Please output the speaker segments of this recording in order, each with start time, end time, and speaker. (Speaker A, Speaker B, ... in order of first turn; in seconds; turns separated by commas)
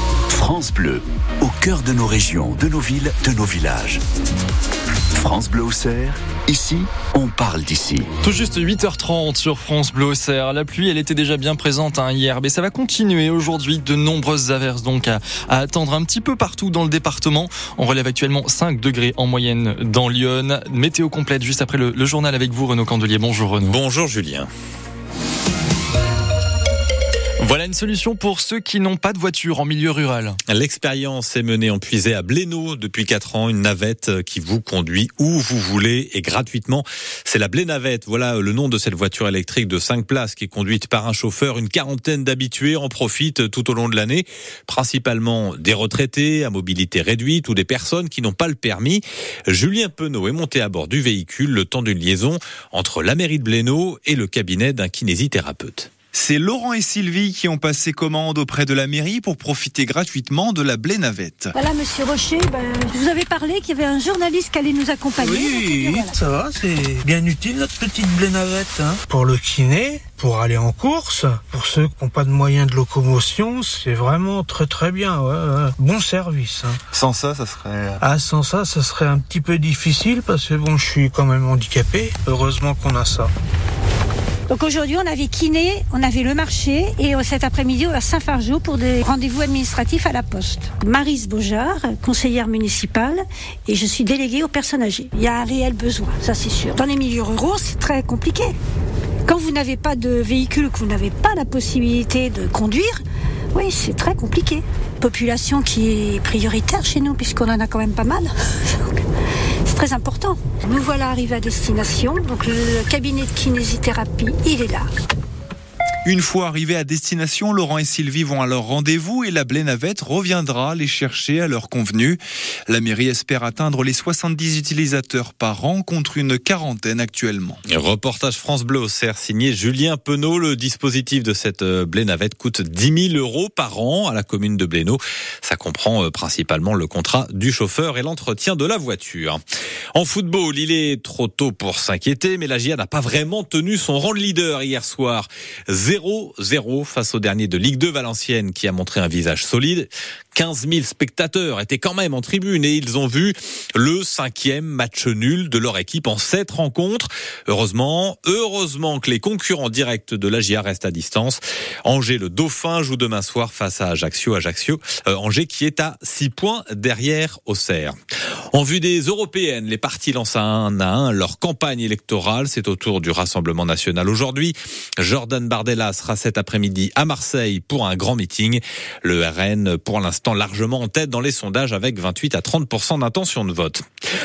Speaker A: 0.3-4.0, Speaker A: 5.1-8.1, Speaker B: 8.2-23.8, Speaker C: 23.6-24.5, Speaker B: 27.4-30.4, Speaker C: 30.5-55.9, Speaker D: 56.1-61.5, Speaker E: 61.5-66.2, Speaker F: 65.2-76.8, Speaker D: 76.9-78.0, Speaker F: 78.0-83.3, Speaker E: 84.5-98.5, Speaker E: 99.2-103.0, Speaker E: 103.5-109.0, Speaker E: 109.7-114.9, Speaker D: 116.0-127.6, Speaker C: 127.7-139.4, Speaker C: 139.9-167.9, Speaker C: 168.5-183.8